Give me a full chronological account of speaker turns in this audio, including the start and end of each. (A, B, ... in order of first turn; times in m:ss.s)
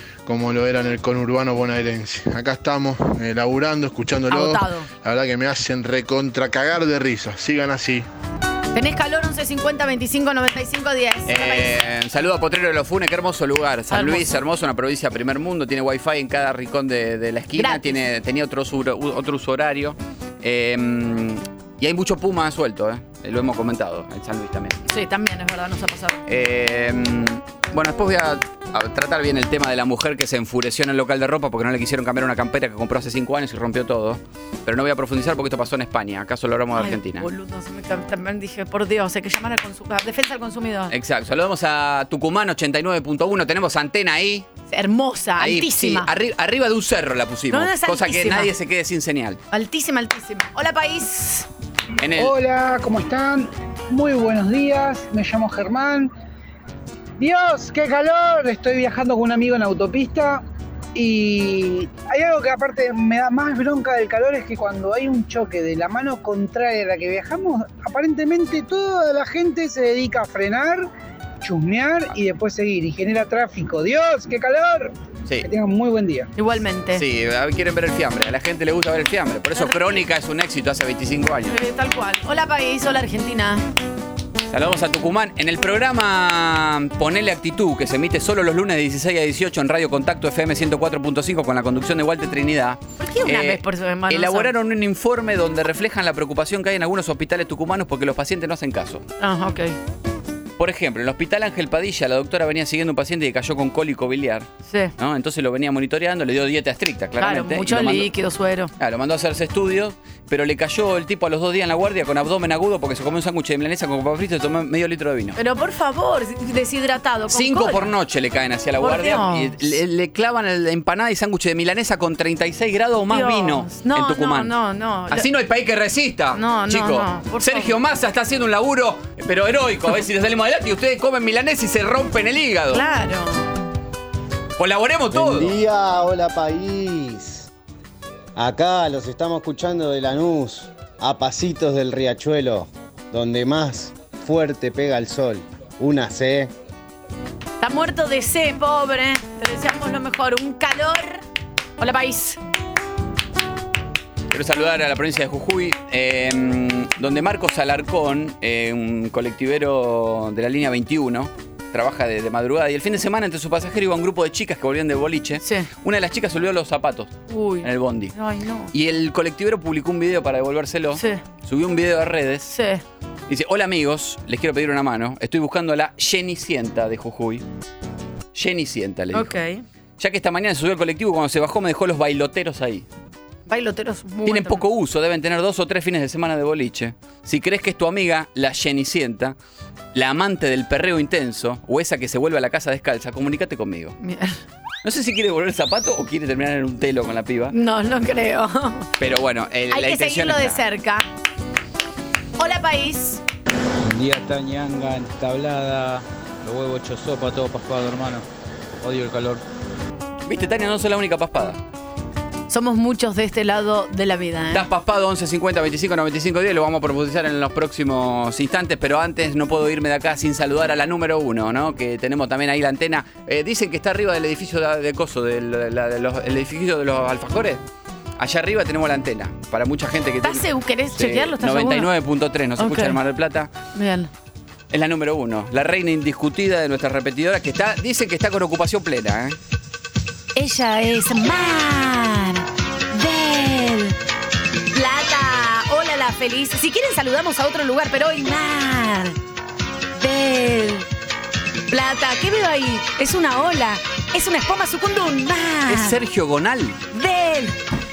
0:00.3-0:08.1 A
0:04.3-0:04.9 B
0:08.7-0:11.8 B
0:11.3-0:24.8 C
0:13.9-0:14.3 B
0:17.6-0:18.0 B
0:24.9-0:26.2 B
0:26.3-0:37.3 C
0:36.7-0:40.9 B
0:40.9-0:44.5 C
0:44.7-0:46.1 B
0:45.4-0:49.4 C
0:47.5-0:48.5 B
0:49.5-0:51.5 B
0:52.0-0:52.4 C
0:52.2-0:56.1 D
0:57.2-1:00.4 D
1:01.0-1:10.8 D
1:11.4-1:14.9 D
1:15.4-1:16.3 D
1:16.4-1:17.0 B
1:16.9-1:21.6 C
1:19.6-1:20.0 B
1:21.5-1:23.6 B
1:24.5-1:39.0 C
1:33.0-1:34.5 B
1:39.2-1:39.8 B
1:40.6-1:48.1 C
1:47.2-1:48.7 B
1:48.8-1:55.4 C
1:55.4-1:57.9 B
1:57.3-2:04.5 C
1:58.8-1:59.6 B
2:03.1-2:05.3 B
2:05.1-2:12.8 C
2:06.3-2:07.8 B
2:12.7-2:13.5 B
2:14.6-2:15.6 C
2:15.1-2:17.5 E
2:18.4-2:26.5 E
2:27.6-2:31.2 B
2:31.8-2:32.4 B
2:34.3-2:48.1 C
2:45.4-2:45.7 B
2:47.3-2:48.7 B
2:48.7-2:52.5 C
2:51.0-2:51.2 B
2:52.5-2:52.8 B
2:53.3-2:57.4 C
2:58.3-2:59.3 C
2:59.1-2:59.6 B
3:00.0-3:02.9 C
3:03.5-3:04.6 B
3:04.3-3:09.4 C
3:10.0-3:14.0 C
3:14.0-3:14.4 B
3:14.8-3:17.6 C
3:17.5-3:18.9 B
3:19.0-3:20.6 C
3:19.7-3:21.1 B
3:22.4-3:23.2 B
3:23.9-3:28.2 F
3:28.8-3:29.4 F
3:30.3-3:31.6 C
3:32.5-3:34.7 B
3:34.5-3:47.6 C
3:48.2-3:53.5 C
3:50.2-3:51.9 B
3:52.6-3:53.0 B
3:53.8-3:54.1 B
3:54.7-3:59.4 C
4:00.4-4:04.0 B
4:04.7-4:09.2 B
4:10.0-4:10.9 B
4:11.7-4:16.0 B
4:15.7-4:16.8 C
4:16.9-4:17.6 B